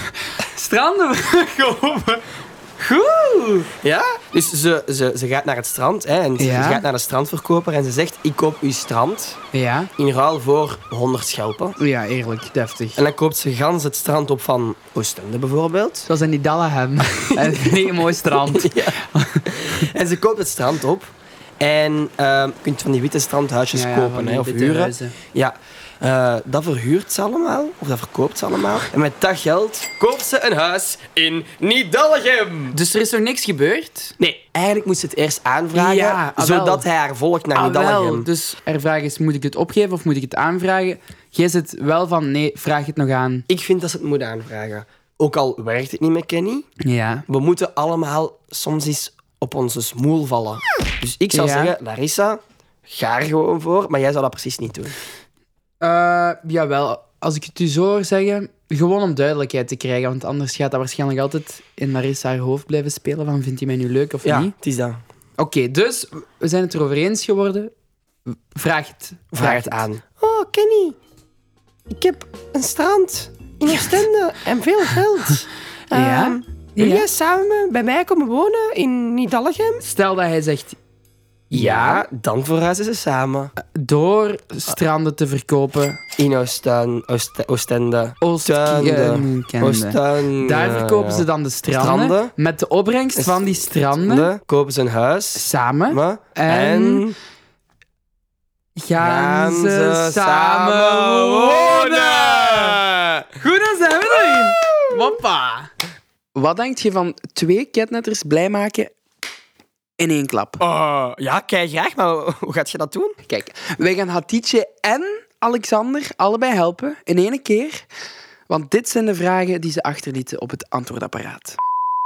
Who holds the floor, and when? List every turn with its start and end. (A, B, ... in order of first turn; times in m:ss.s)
0:00.4-0:03.7 A
0:03.8-0:09.4 B
0:06.4-0:06.9 A
0:09.5-0:09.9 A
0:10.0-0:11.8 B
0:11.8-0:13.0 A
0:13.0-0:16.1 B
0:16.1-0:19.9 A
0:17.4-0:19.0 B
0:19.5-0:32.8 B
0:23.7-0:25.2 A
0:32.7-0:34.2 A
0:34.2-0:38.3 B
0:35.7-0:36.9 A
0:37.5-0:43.4 A
0:43.5-0:46.6 B
0:46.8-0:47.2 A
0:47.3-0:55.0 B
0:51.3-0:51.8 A
0:55.8-1:04.5 A
1:04.2-1:05.0 B
1:05.4-1:07.7 A
1:08.3-1:09.8 A
1:09.3-1:11.0 B
1:11.9-1:19.8 B
1:15.9-1:17.1 A
1:19.8-1:20.8 A
1:21.5-1:23.5 B
1:21.5-1:22.1 A
1:23.6-1:26.0 A
1:26.2-1:32.3 B
1:28.2-1:34.3 A
1:33.2-1:37.2 B
1:35.4-1:37.0 A
1:38.8-1:42.8 A
1:39.0-1:43.4 B
1:43.4-1:45.7 A
1:44.0-1:45.2 B
1:46.4-1:48.9 A
1:50.0-1:50.6 A
1:50.6-1:53.2 B
1:53.3-1:57.8 A
1:58.5-2:01.6 A